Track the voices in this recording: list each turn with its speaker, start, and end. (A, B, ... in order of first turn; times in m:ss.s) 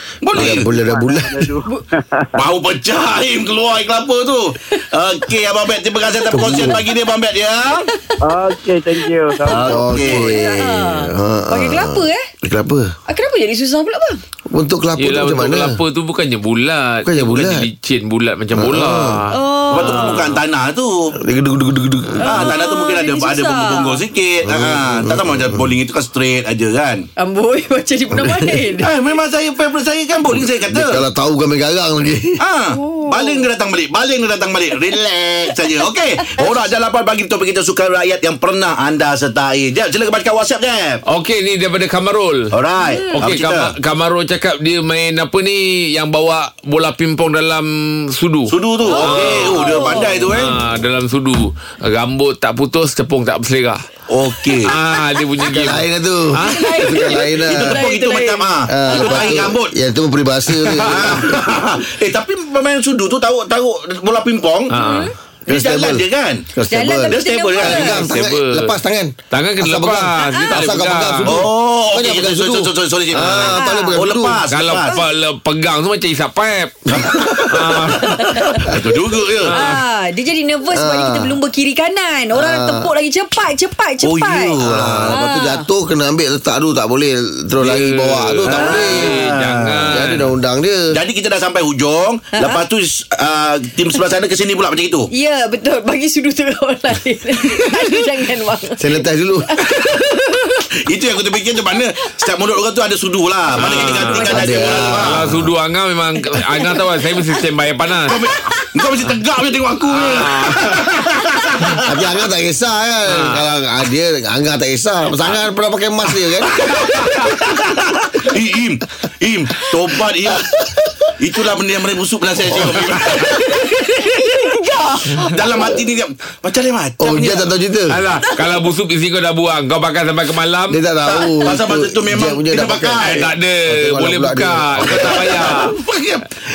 0:00.2-0:00.7 A
0:00.3-0:01.5 B
0:00.4-0:02.5 C
0:02.4-0:07.9 A
0:06.3-0:06.8 B
0:06.5-0:06.8 D
0:08.2-0:10.6 C
0:09.5-0:10.3 A
0:09.6-0:12.9 B
0:10.2-0:12.2 D
0:13.1-0:14.2 D
0:14.5-0:15.8 B
0:15.0-0:20.4 E
0:17.0-0:17.7 B
0:18.5-0:19.3 B
0:19.3-0:20.3 D
0:19.7-0:21.2 A
0:21.2-0:22.5 B
0:22.2-0:24.0 D
0:22.2-0:27.1 A
0:24.4-0:25.7 B
0:27.2-0:28.9 D
0:28.8-0:31.0 A
0:30.7-0:32.4 B
0:32.4-0:41.0 A
0:32.7-0:33.5 D
0:35.8-0:36.7 D
0:41.1-0:42.5 E
0:42.5-0:43.7 A
0:42.8-0:43.3 D
0:43.2-0:53.9 E
0:48.5-0:50.6 A
0:48.8-0:50.3 D
0:54.1-0:54.7 A
0:54.6-0:56.9 E
0:55.5-0:57.8 B
0:56.4-0:59.5 D
0:57.4-0:59.7 A
0:58.7-1:01.4 B
1:00.6-1:01.1 E
1:00.8-1:04.7 A
1:04.7-1:05.1 D
1:04.7-1:05.1 E
1:05.5-1:06.4 A
1:05.5-1:14.4 B
1:06.7-1:08.1 D
1:07.1-1:08.1 A
1:08.1-1:08.8 E
1:09.3-1:11.4 E
1:10.2-1:10.5 D
1:11.2-1:15.0 A
1:13.4-1:14.0 D
1:14.5-1:16.9 E
1:16.9-1:19.6 A
1:16.9-1:17.4 B
1:17.5-1:18.2 E
1:18.0-1:18.7 D
1:19.4-1:19.8 E
1:19.5-1:24.6 D
1:20.7-1:21.4 B
1:22.3-1:22.9 B
1:24.0-1:25.2 A
1:24.6-1:29.2 B
1:25.1-1:25.7 D
1:27.6-1:30.3 E
1:28.5-1:29.9 A
1:29.9-1:30.9 B
1:30.9-1:35.1 A
1:32.3-1:32.6 D
1:35.1-1:39.0 D
1:37.5-1:38.0 A
1:38.8-1:39.5 B
1:39.5-1:40.0 D
1:39.7-1:40.2 A
1:40.9-1:45.3 A
1:43.6-1:44.3 E
1:43.6-1:45.0 D
1:44.3-1:45.5 B
1:44.9-1:48.2 E
1:46.2-1:47.4 D
1:48.1-1:51.9 A
1:48.1-1:48.9 D
1:49.9-1:50.9 E
1:51.8-1:57.3 B
1:53.1-1:53.4 E
1:56.5-2:00.5 A
2:00.4-2:00.9 B
2:01.2-2:04.5 A
2:02.5-2:03.2 B
2:03.4-2:05.7 D
2:05.1-2:07.5 A
2:07.0-2:08.0 B
2:07.9-2:10.8 E
2:10.7-2:15.2 B
2:11.1-2:13.3 A
2:13.0-2:15.8 E
2:14.8-2:16.2 A